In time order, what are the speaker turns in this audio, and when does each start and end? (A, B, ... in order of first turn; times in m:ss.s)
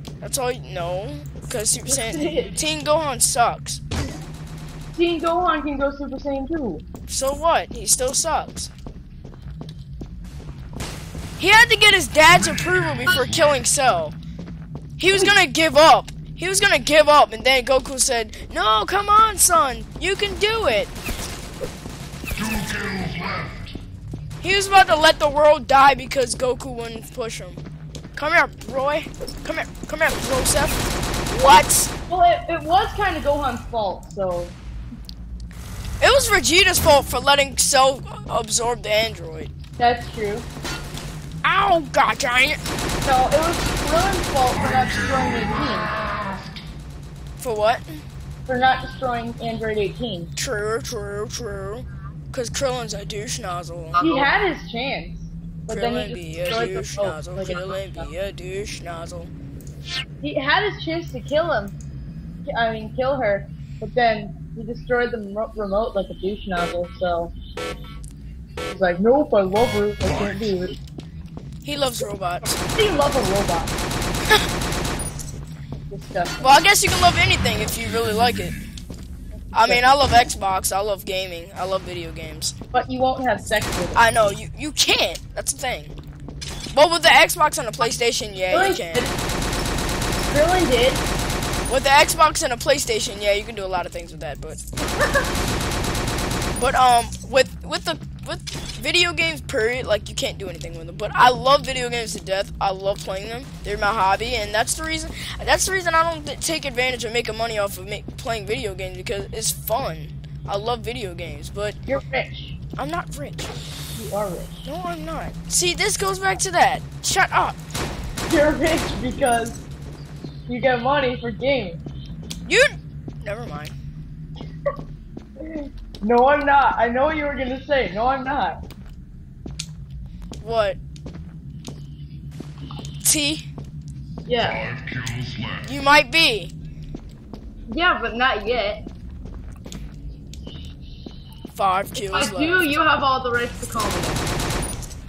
0:00.2-0:03.8 A
0:01.8-0:02.6 B
0:04.9-0:06.8 B
0:07.1-0:08.7 A
0:11.4-0:14.2 A
0:12.3-0:13.5 C
0:15.0-0:20.9 A
0:22.3-0:23.7 C
0:24.4-0:27.6 A
0:28.1-0:31.9 A
0:32.1-0:34.6 B
0:36.0-0:39.5 A
0:39.8-0:40.5 B
0:41.4-0:42.6 A
0:43.0-0:45.9 B
0:47.4-0:48.0 A
0:48.5-0:50.3 B
0:50.4-0:54.2 A
0:54.0-0:58.1 B
0:55.7-0:59.3 A
1:00.2-1:01.8 B
1:02.4-1:07.3 B
1:08.7-1:10.8 B
1:11.6-1:12.6 A
1:12.6-1:13.7 B
1:15.8-1:16.6 B
1:16.4-1:18.6 A
1:19.5-1:19.8 B
1:19.5-1:22.6 A
1:22.7-1:24.0 B
1:23.9-1:25.9 A
1:26.7-1:29.0 A
1:28.5-1:29.1 B
1:30.2-1:31.0 B
1:31.7-1:34.6 A
1:34.9-1:35.3 B
1:36.6-1:51.8 A
1:51.9-1:52.6 B
1:52.8-1:53.5 A
1:54.0-1:54.7 B
1:54.6-1:57.6 A
1:58.3-1:59.6 B
2:00.5-2:01.8 B
2:02.4-2:03.7 A
2:05.4-2:08.6 B
2:10.4-2:10.8 A
2:13.0-2:13.4 A
2:14.2-2:14.6 B
2:14.4-2:15.7 C
2:15.6-2:16.5 A
2:17.7-2:18.8 B
2:21.5-2:22.7 A
2:22.1-2:24.2 B